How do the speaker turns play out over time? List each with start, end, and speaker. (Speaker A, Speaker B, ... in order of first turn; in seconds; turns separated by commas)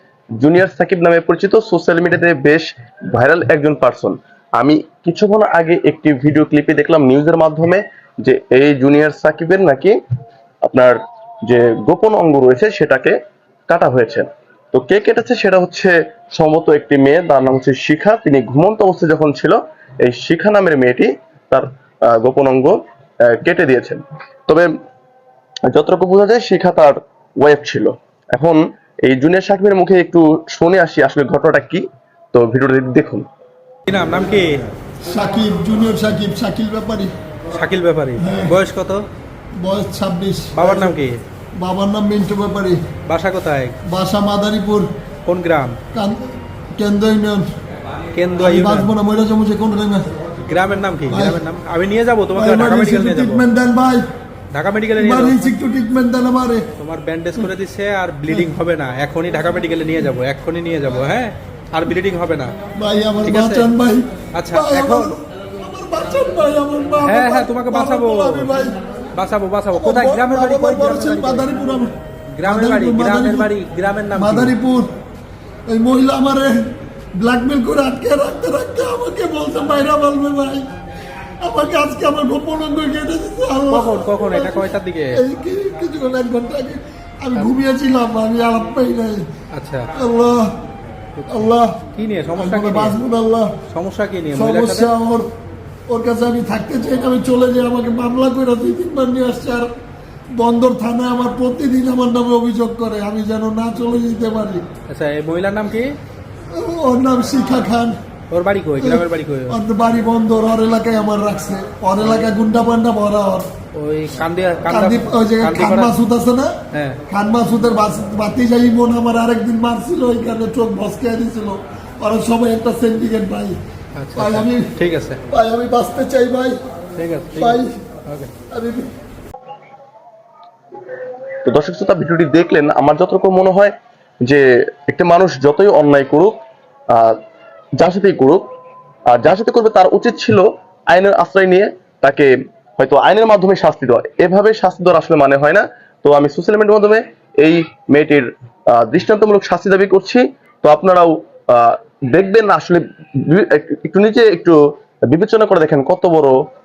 Speaker A: 0.4-10.0, Speaker A: 10.6-13.2, Speaker A: 13.7-24.7, Speaker A: 25.7-33.2, Speaker B: 33.9-34.6, Speaker C: 35.0-37.1, Speaker B: 37.5-39.0, Speaker C: 38.2-38.6, Speaker C: 39.6-41.0, Speaker B: 40.5-41.2, Speaker C: 41.5-42.8, Speaker B: 43.1-43.8, Speaker C: 43.8-44.9, Speaker B: 45.2-45.8, Speaker C: 45.9-47.5, Speaker B: 48.1-48.9, Speaker C: 48.4-50.1, Speaker B: 50.4-53.5, Speaker C: 51.1-51.4, Speaker C: 52.4-54.0, Speaker B: 54.5-55.5, Speaker C: 55.0-56.7, Speaker B: 56.8-62.5, Speaker C: 62.7-68.8, Speaker B: 63.2-63.7, Speaker B: 64.3-65.1, Speaker B: 67.0-68.5, Speaker B: 69.1-71.5, Speaker C: 69.7-71.9, Speaker B: 72.3-74.5, Speaker C: 72.4-73.5, Speaker C: 74.1-74.9, Speaker C: 75.7-76.6, Speaker C: 77.2-80.7, Speaker C: 81.4-89.2, Speaker B: 83.7-85.2, Speaker B: 89.5-89.9, Speaker C: 89.9-90.5, Speaker B: 91.2-93.0, Speaker C: 91.3-91.8, Speaker C: 92.3-93.5, Speaker B: 93.7-94.9, Speaker C: 94.3-95.3, Speaker C: 95.9-99.7, Speaker C: 100.3-104.7, Speaker B: 104.9-105.9, Speaker C: 106.5-108.0, Speaker B: 108.3-109.6, Speaker C: 108.8-113.5, Speaker B: 112.0-112.3, Speaker B: 113.7-115.9, Speaker C: 114.7-123.5, Speaker B: 116.7-117.0, Speaker B: 124.0-125.2, Speaker C: 124.1-124.7, Speaker C: 125.3-126.6, Speaker B: 127.0-128.3, Speaker C: 127.3-127.8, Speaker C: 128.5-128.9, Speaker A: 131.4-136.4, Speaker A: 136.9-137.2, Speaker A: 137.8-138.4, Speaker A: 139.1-154.6, Speaker A: 155.1-156.4